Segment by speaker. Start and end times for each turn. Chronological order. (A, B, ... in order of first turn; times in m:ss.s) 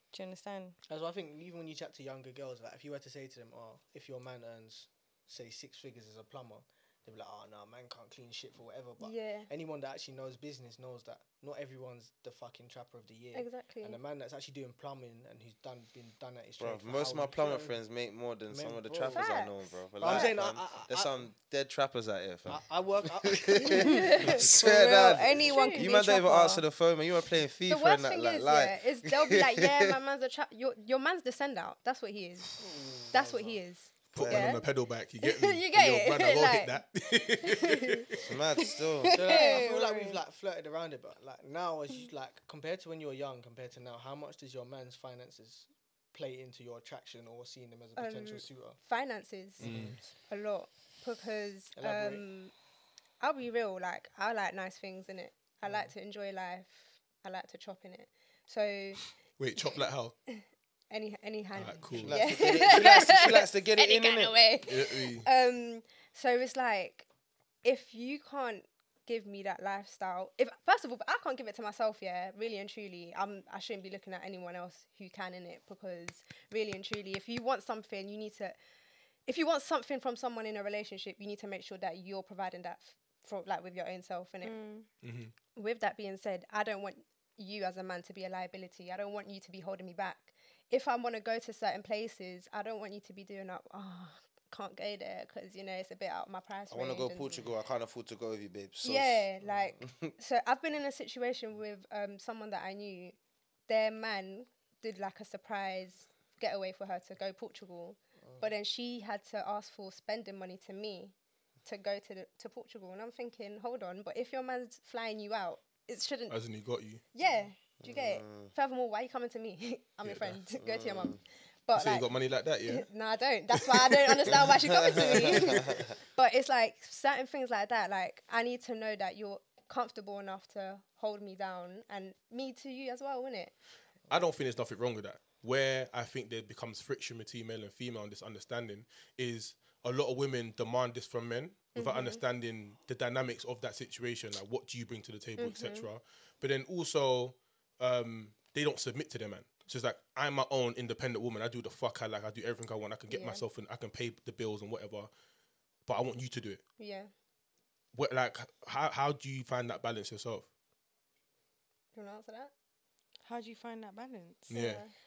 0:00.1-0:00.8 A
0:00.9-0:17.8 B
0:09.0-0:09.5 C
0:13.3-0:14.0 C
0:16.6-0:30.0 D
0:18.5-0:19.3 B
0:19.1-0:20.3 C
0:20.0-0:21.2 B
0:22.5-0:25.2 B
0:23.6-0:24.5 C
0:23.9-0:26.6 A
0:25.5-0:26.0 C
0:27.7-0:32.6 C
0:32.6-0:33.6 B
0:33.1-0:34.6 C
0:34.1-0:38.2 E
0:34.2-0:34.6 D
0:35.2-0:38.1 C
0:38.2-0:39.1 D
0:39.0-0:40.2 A
0:39.1-0:48.8 B
0:39.3-0:39.7 C
0:48.0-0:49.7 C
0:49.6-0:50.0 B
0:49.6-0:50.0 E
0:50.3-0:52.5 C
0:51.8-0:52.2 B
0:53.2-0:59.0 C
0:55.6-0:55.9 B
0:59.4-1:00.2 E
1:00.3-1:07.1 C
1:01.6-1:02.2 E
1:01.9-1:04.4 D
1:04.6-1:05.3 E
1:07.6-1:18.6 C
1:19.3-1:24.6 C
1:24.4-1:24.9 A
1:25.0-1:25.3 E
1:25.6-1:37.4 C
1:36.7-1:39.3 D
1:38.8-1:43.2 C
1:39.8-1:40.1 D
1:43.7-1:56.4 C
1:56.3-1:57.0 E
1:57.1-2:02.1 C
1:57.8-1:58.5 D
2:00.0-2:00.4 E
2:00.6-2:01.2 D
2:01.8-2:02.9 E
2:02.7-2:13.5 C
2:03.5-2:04.5 E
2:04.7-2:05.9 D
2:14.1-2:35.1 E
2:21.8-2:22.2 C
2:25.4-2:25.9 C
2:33.1-2:33.4 C
2:35.9-2:36.6 E
2:36.8-2:37.1 C
2:37.9-2:40.5 E
2:41.9-2:42.5 C
2:43.2-2:44.6 A
2:44.5-2:44.9 C
2:44.5-2:44.8 E